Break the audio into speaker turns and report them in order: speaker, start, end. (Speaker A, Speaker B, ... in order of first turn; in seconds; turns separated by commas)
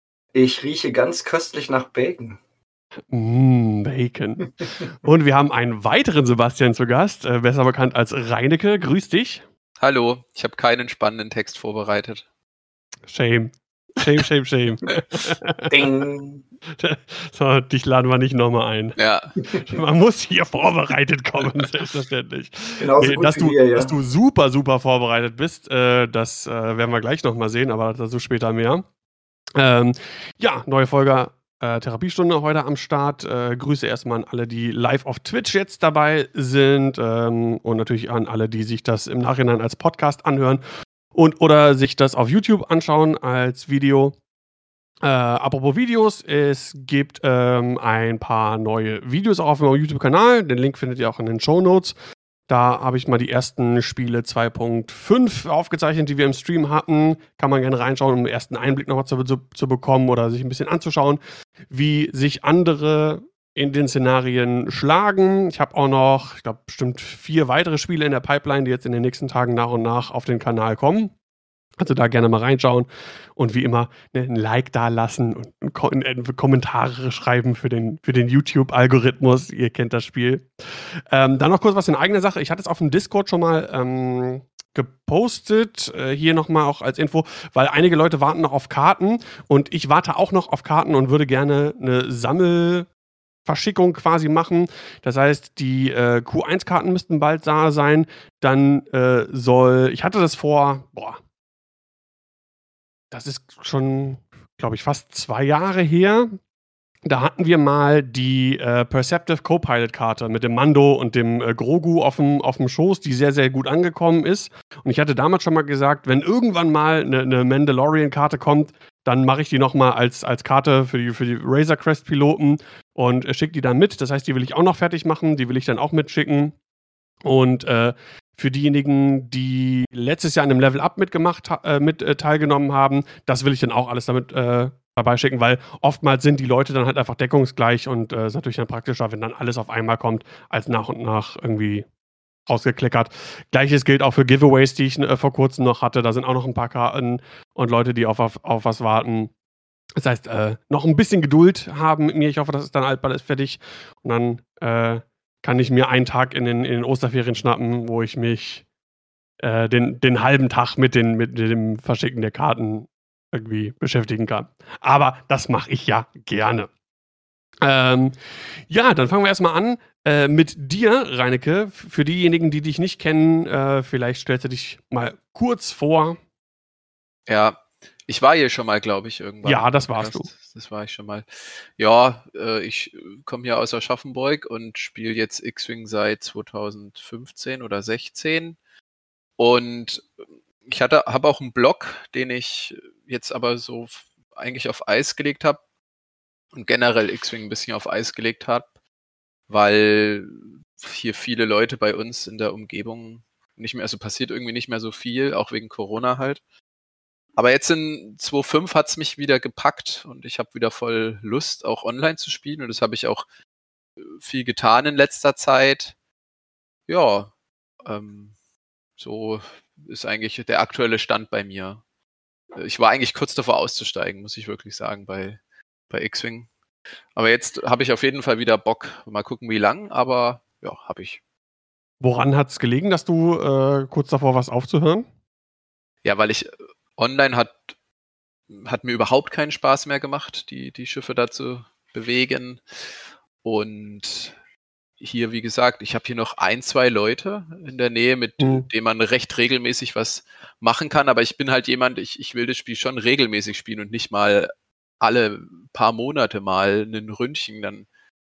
Speaker A: 0.3-2.4, Speaker B: 3.1-9.4, Speaker C: 9.8-12.2, Speaker B: 13.1-15.9, Speaker A: 15.7-16.4, Speaker B: 16.7-28.8, Speaker C: 18.9-19.4, Speaker A: 22.8-23.9, Speaker B: 29.6-40.6, Speaker B: 41.1-44.2, Speaker B: 45.0-52.0, Speaker B: 52.5-71.1, Speaker B: 71.8-92.9, Speaker B: 93.5-101.2, Speaker B: 103.1-106.3, Speaker B: 107.0-126.5, Speaker B: 127.2-141.8, Speaker B: 142.5-149.3, Speaker B: 150.0-158.6, Speaker B: 159.4-166.7, Speaker B: 167.6-176.2, Speaker C: 177.3-188.6, Speaker B: 179.4-180.3, Speaker C: 189.4-190.1, Speaker C: 190.7-195.6, Speaker C: 196.5-198.7, Speaker C: 199.5-206.4, Speaker C: 207.4-213.2, Speaker C: 214.0-215.9, Speaker C: 216.9-217.3, Speaker C: 217.8-218.3, Speaker C: 219.0-221.8, Speaker C: 222.6-225.4, Speaker C: 225.9-226.5, Speaker C: 227.2-231.2, Speaker B: 232.0-235.1, Speaker C: 236.0-237.6, Speaker C: 238.5-242.6, Speaker C: 243.4-244.3, Speaker C: 245.0-257.9, Speaker B: 248.4-248.7